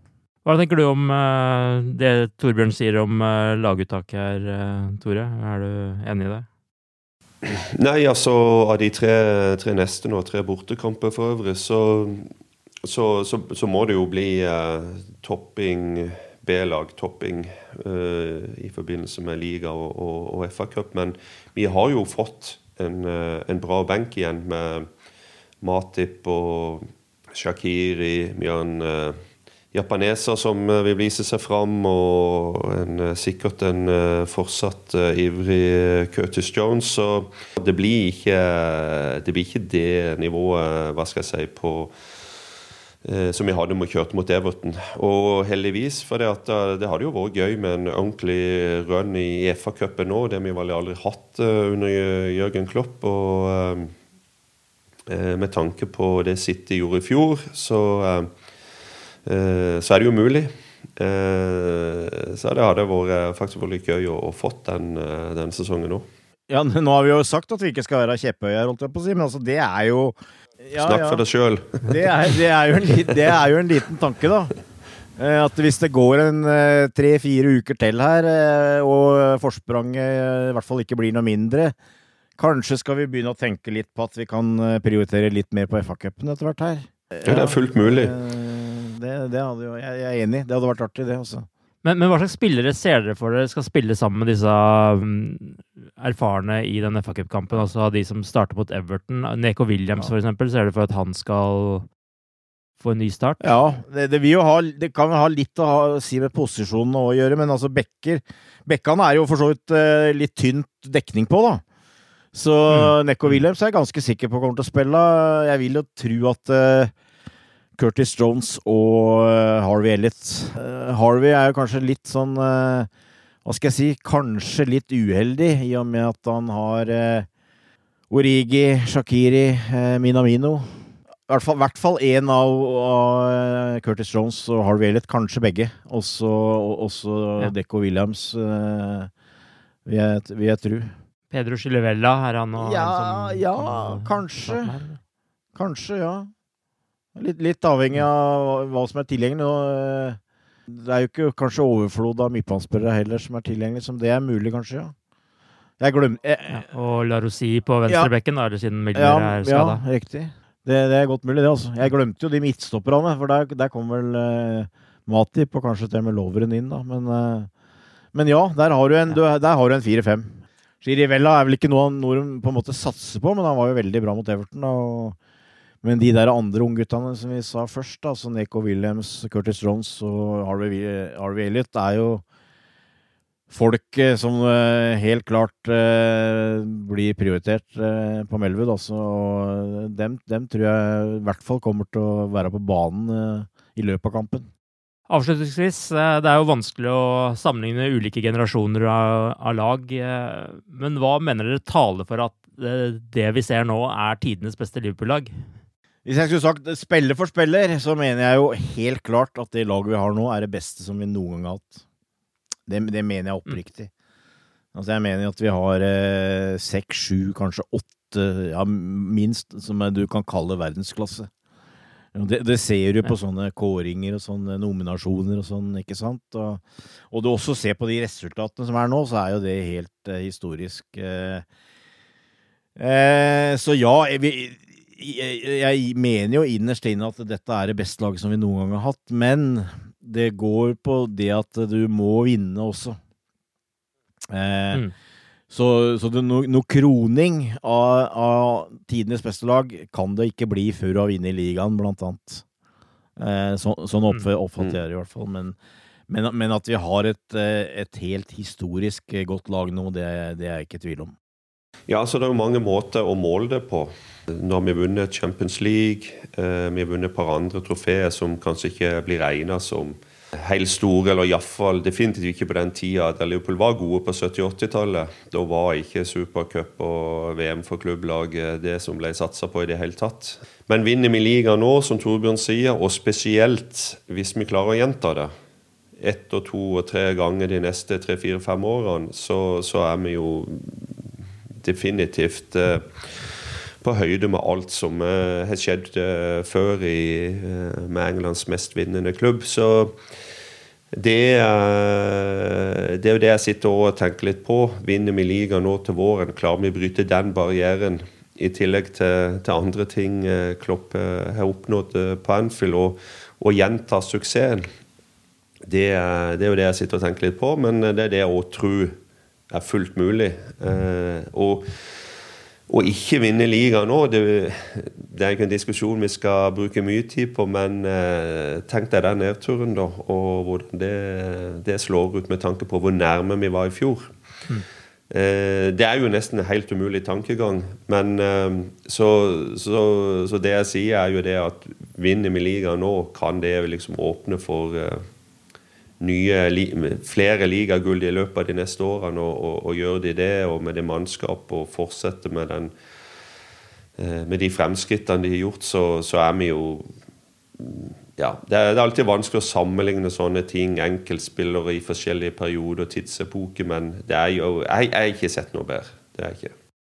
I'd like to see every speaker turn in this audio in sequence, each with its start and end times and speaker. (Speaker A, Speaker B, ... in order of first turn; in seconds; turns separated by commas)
Speaker A: 0.5-6.5, Speaker B: 7.4-12.3, Speaker B: 12.8-24.9, Speaker B: 25.6-29.2, Speaker B: 29.7-41.9, Speaker B: 43.0-53.9, Speaker B: 55.1-58.3, Speaker B: 59.3-66.1, Speaker C: 66.5-71.2, Speaker B: 70.8-72.1, Speaker C: 71.8-74.5, Speaker C: 75.2-81.8, Speaker C: 82.4-91.5, Speaker B: 87.2-88.1, Speaker A: 91.8-101.9, Speaker A: 102.8-103.5, Speaker C: 103.4-111.6, Speaker C: 112.3-116.9, Speaker A: 112.7-113.4, Speaker C: 117.8-122.9, Speaker C: 123.5-127.3, Speaker C: 128.1-139.1, Speaker C: 139.9-140.9, Speaker A: 141.3-145.0, Speaker C: 142.6-144.8, Speaker C: 145.6-146.3, Speaker C: 147.2-154.9, Speaker C: 155.8-156.7, Speaker A: 156.5-159.8, Speaker C: 158.9-167.5, Speaker C: 168.1-175.2, Speaker C: 175.8-182.2, Speaker C: 183.5-194.5, Speaker A: 195.1-205.3, Speaker C: 206.1-211.8, Speaker C: 212.7-213.9, Speaker C: 214.7-221.3, Speaker C: 222.2-231.5, Speaker C: 232.8-243.0, Speaker C: 244.3-244.8, Speaker C: 245.5-252.4, Speaker C: 253.2-255.6, Speaker C: 256.1-261.1, Speaker B: 261.9-285.3, Speaker B: 286.0-291.1, Speaker B: 291.6-300.0, Speaker B: 300.9-314.7, Speaker B: 315.7-319.0, Speaker B: 319.5-321.7, Speaker B: 322.7-334.1, Speaker B: 335.1-345.0, Speaker B: 346.0-352.7, Speaker B: 354.0-356.9, Speaker B: 357.6-366.6